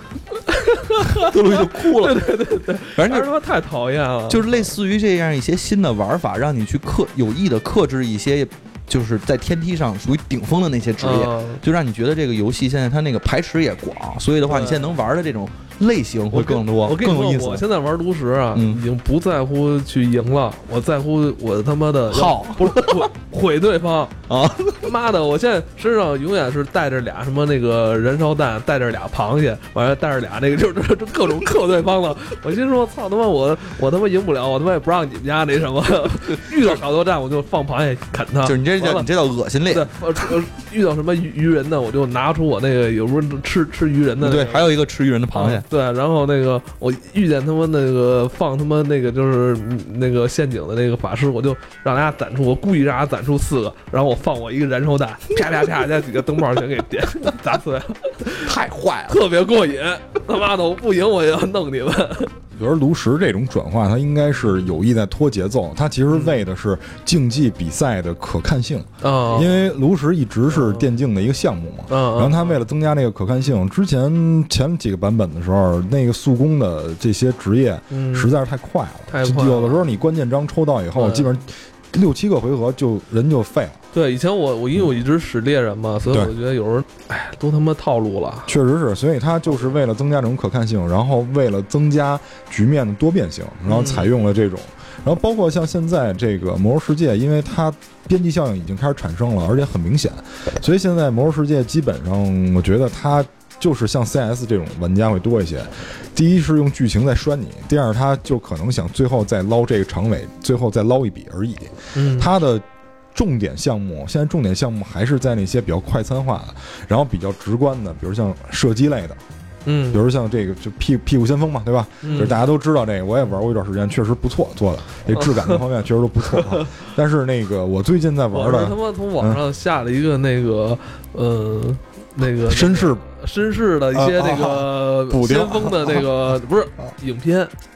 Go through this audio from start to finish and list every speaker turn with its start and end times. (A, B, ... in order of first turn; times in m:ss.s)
0:00.5-0:04.7 A
0:01.0-0:02.3 B
0:03.0-0:03.3 B
0:04.3-0:17.6 B
0:11.0-0:11.6 A
0:14.4-0:14.9 A
0:16.3-0:24.2 A
0:18.5-0:18.8 B
0:22.1-0:23.1 B
0:24.3-0:24.8 B
0:24.8-0:39.1 A
0:38.4-0:40.3 B
0:39.7-0:44.6 A
0:44.2-0:45.6 B
0:45.3-0:58.6 A
0:58.4-0:59.2 B
0:59.1-1:02.3 A
1:02.6-1:23.8 C
1:06.1-1:06.4 A
1:09.0-1:09.6 A
1:10.5-1:10.9 A
1:11.9-1:12.6 A
1:17.9-1:18.3 A
1:19.1-1:19.8 A
1:21.0-1:21.3 A
1:23.9-1:28.5 A
1:28.5-1:59.2 C
1:33.7-1:34.1 B
1:51.9-1:52.3 A
1:59.7-2:00.0 A
1:59.9-2:09.4 C
2:02.0-2:02.4 A
2:05.2-2:05.6 A
2:06.4-2:06.7 A
2:08.3-2:17.5 A
2:12.5-2:13.0 C
2:13.9-2:16.1 C